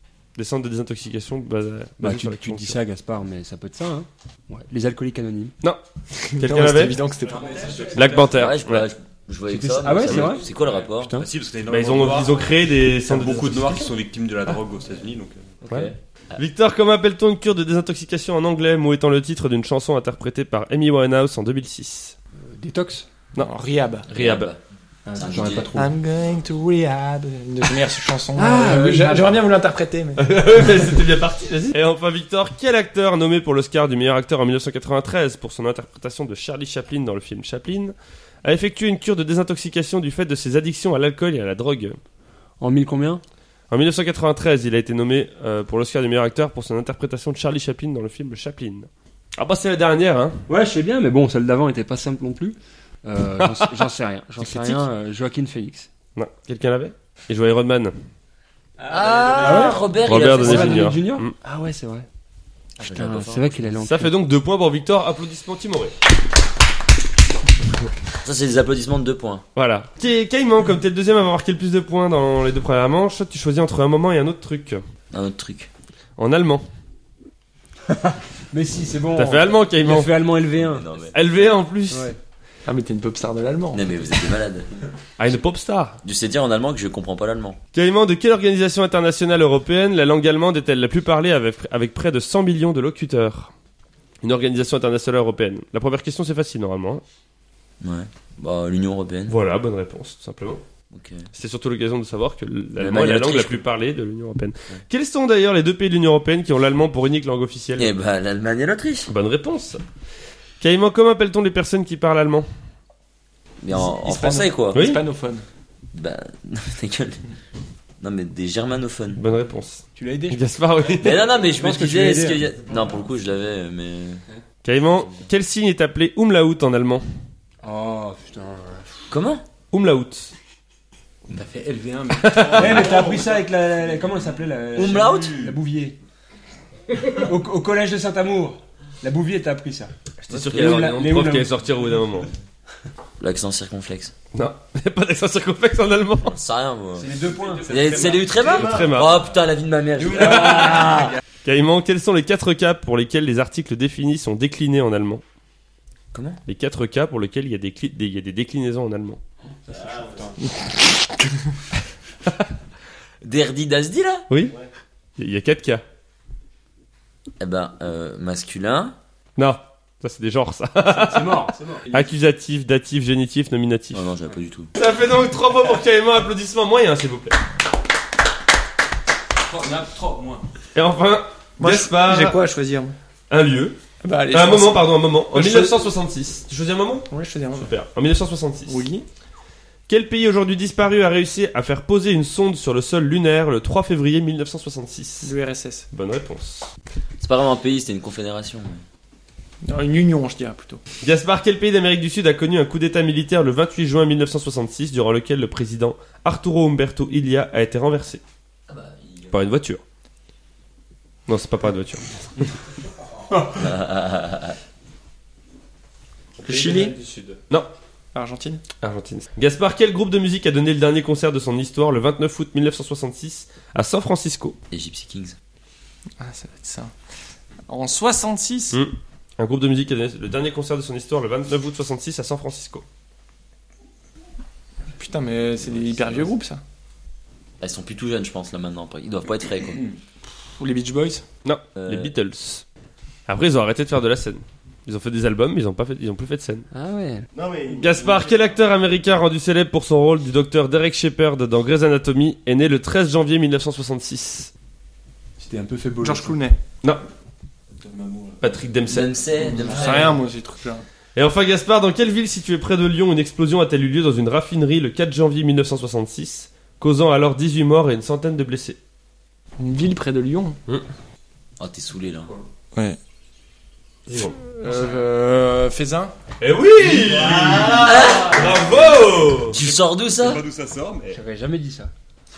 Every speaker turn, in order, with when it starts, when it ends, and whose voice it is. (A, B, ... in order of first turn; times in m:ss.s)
0:00.4-0:02.8 A
0:02.0-0:05.5 B
0:06.2-0:08.2 C
0:06.4-0:07.0 A
0:07.4-0:08.2 D
0:07.9-0:08.8 A
0:08.2-0:11.2 E
0:09.5-0:11.3 B
0:11.2-0:12.5 D
0:11.7-0:13.9 A
0:13.0-0:15.5 D
0:15.6-0:16.4 E
0:15.7-0:22.2 A
0:22.4-0:23.1 B
0:23.4-0:24.1 C
0:24.1-0:24.6 E
0:24.1-0:24.5 A
0:25.0-0:25.9 B
0:25.2-0:25.7 E
0:25.7-0:30.2 C
0:28.4-0:29.4 B
0:30.2-0:42.0 A
0:42.6-0:43.2 B
0:43.7-0:50.4 A
0:50.5-0:55.9 B
0:54.4-0:54.7 A
0:56.2-0:57.9 A
0:58.9-0:59.7 D
0:58.9-1:00.9 E
0:59.4-1:02.1 B
1:00.0-1:01.3 A
1:02.8-1:03.6 E
1:02.8-1:04.1 B
1:03.8-1:05.9 A
1:08.2-1:09.4 E
1:09.5-1:14.8 A
1:15.1-1:15.7 E
1:16.2-1:16.6 A
1:17.9-1:20.9 B
1:19.1-1:20.1 A
1:20.6-1:21.5 E
1:21.1-1:22.1 A
1:21.9-1:22.2 B
1:22.6-1:23.8 C
1:23.7-1:24.7 E
1:25.2-1:26.0 A
1:26.0-1:27.6 E
1:27.7-1:33.5 A
1:34.2-1:37.0 A
1:37.8-1:39.4 E
1:39.3-1:40.6 A
1:40.9-1:41.3 E
1:41.3-1:47.9 A
1:42.8-1:43.6 E
1:47.8-1:49.1 E
1:49.1-1:49.8 A
1:50.6-1:52.5 A
1:53.6-1:54.8 E
1:53.7-1:55.4 C
1:54.7-1:55.0 A
1:55.9-1:57.2 E
1:58.0-1:59.2 E
1:59.2-2:01.3 A
2:00.0-2:00.4 B
2:01.0-2:04.2 E
2:01.4-2:02.5 B
2:04.6-2:07.0 A
2:07.6-2:08.9 B
2:09.1-2:09.4 E
2:09.7-2:10.3 A
2:12.2-2:13.0 A
2:12.3-2:13.4 D
2:12.5-2:16.0 B
2:14.8-2:15.4 E
2:14.8-2:15.5 D
2:17.1-2:21.6 B
2:20.3-2:22.3 A
2:23.2-2:24.1 E
2:24.3-2:26.4 A
2:26.2-2:27.1 E
2:27.0-2:27.8 B
2:27.7-2:31.1 E
2:27.7-2:28.8 D
2:28.4-2:29.2 A
2:30.2-2:30.8 A
2:31.4-2:35.2 A
2:36.1-2:36.4 E
2:36.5-2:39.2 A
2:39.9-2:40.3 D
2:43.2-2:44.3 E
2:44.3-2:44.5 A
2:45.2-2:45.8 A
2:47.4-2:49.0 E
2:49.4-2:54.0 A
2:50.9-2:51.8 B
2:53.9-2:54.7 E
2:54.8-2:57.4 A
2:59.5-3:00.4 D
3:00.7-3:02.4 A
3:01.6-3:02.9 C
3:03.3-3:03.8 A
3:04.0-3:05.8 C
3:04.3-3:08.8 A
3:07.1-3:07.7 C
3:08.7-3:09.0 C
3:09.9-3:15.3 A
3:15.2-3:15.9 C
3:15.9-3:16.7 A
3:17.2-3:18.8 E
3:19.6-3:20.8 C
3:21.0-3:28.2 A
3:28.7-3:29.5 E
3:29.3-3:29.8 A
3:31.3-3:32.0 A
3:33.5-3:34.6 E
3:36.4-3:36.9 C
3:36.4-3:37.7 A
3:38.1-3:38.6 C
3:38.8-3:44.6 A
3:44.7-3:45.4 E
3:46.2-3:46.9 C
3:47.7-3:48.8 C
3:48.7-3:52.8 A
3:55.0-3:56.6 C
3:57.6-3:59.9 E
4:00.6-4:01.2 C
4:01.4-4:02.6 A
4:01.8-4:02.1 E
4:03.3-4:06.6 A
4:06.7-4:07.3 B
4:07.4-4:08.3 D
4:07.7-4:14.5 A
4:15.4-4:16.3 B
4:16.0-4:16.6 C
4:17.8-4:18.6 D
4:18.4-4:19.1 A
4:18.9-4:20.2 E
4:19.6-4:20.8 C
4:19.7-4:20.0 D
4:21.2-4:28.8 A
4:29.6-4:30.6 C
4:31.6-4:32.3 E
4:34.1-4:34.4 A
4:34.6-4:36.1 C
4:36.4-4:39.6 A
4:37.3-4:37.9 D
4:37.8-4:38.5 E
4:38.7-4:39.0 D
4:39.5-4:40.4 E
4:39.5-4:41.2 D
4:41.1-4:41.9 B